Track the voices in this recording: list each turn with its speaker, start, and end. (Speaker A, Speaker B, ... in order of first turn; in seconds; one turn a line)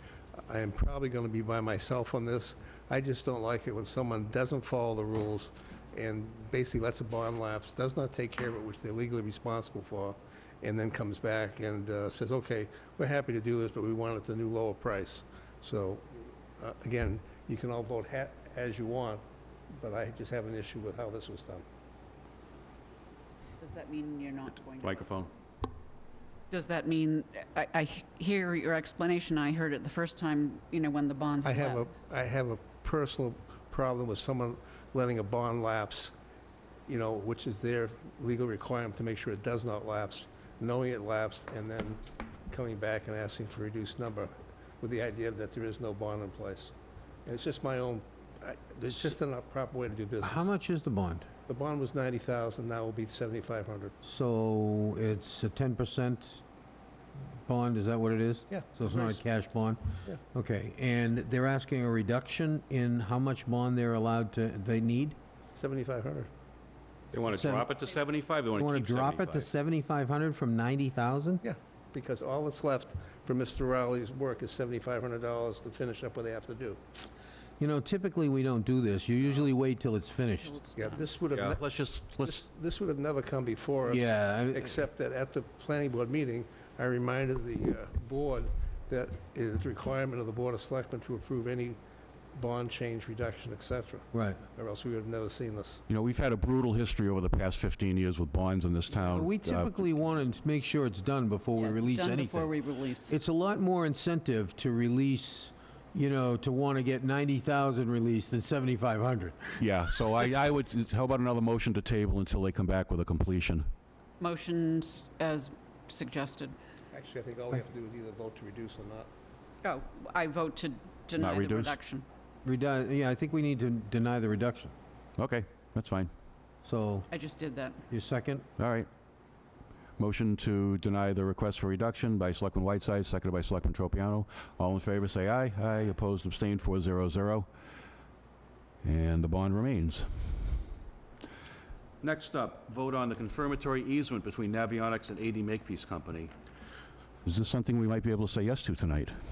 Speaker A: 0.5-19.2
Speaker A: 19.7-21.6
Speaker B: 23.6-25.2
Speaker C: 24.8-25.3
Speaker B: 26.5-31.8
Speaker A: 31.4-36.1
Speaker A: 36.9-46.7
Speaker A: 47.2-50.5
Speaker D: 50.2-51.3
Speaker A: 51.5-53.9
Speaker D: 54.0-56.4
Speaker D: 57.5-65.2
Speaker A: 58.5-59.2
Speaker A: 65.5-66.3
Speaker C: 67.1-69.5
Speaker D: 67.2-67.7
Speaker D: 68.6-71.4
Speaker A: 71.4-76.8
Speaker D: 77.6-80.6
Speaker B: 80.4-81.1
Speaker A: 80.8-81.6
Speaker C: 81.3-82.4
Speaker A: 82.1-91.8
Speaker D: 83.9-84.7
Speaker A: 92.3-95.8
Speaker D: 94.1-94.4
Speaker C: 95.9-99.8
Speaker D: 99.1-102.5
Speaker B: 101.5-103.1
Speaker D: 103.0-109.7
Speaker C: 109.6-113.7
Speaker B: 114.2-116.5
Speaker A: 116.9-119.1
Speaker B: 119.6-122.0
Speaker C: 121.2-121.8
Speaker D: 122.4-124.7
Speaker C: 125.2-126.1
Speaker D: 126.6-127.1
Speaker B: 127.1-127.8
Speaker D: 127.9-128.4
Speaker C: 128.6-128.9
Speaker C: 130.0-137.5
Speaker C: 138.8-140.1
Speaker C: 142.0-146.3
Speaker C: 147.2-149.2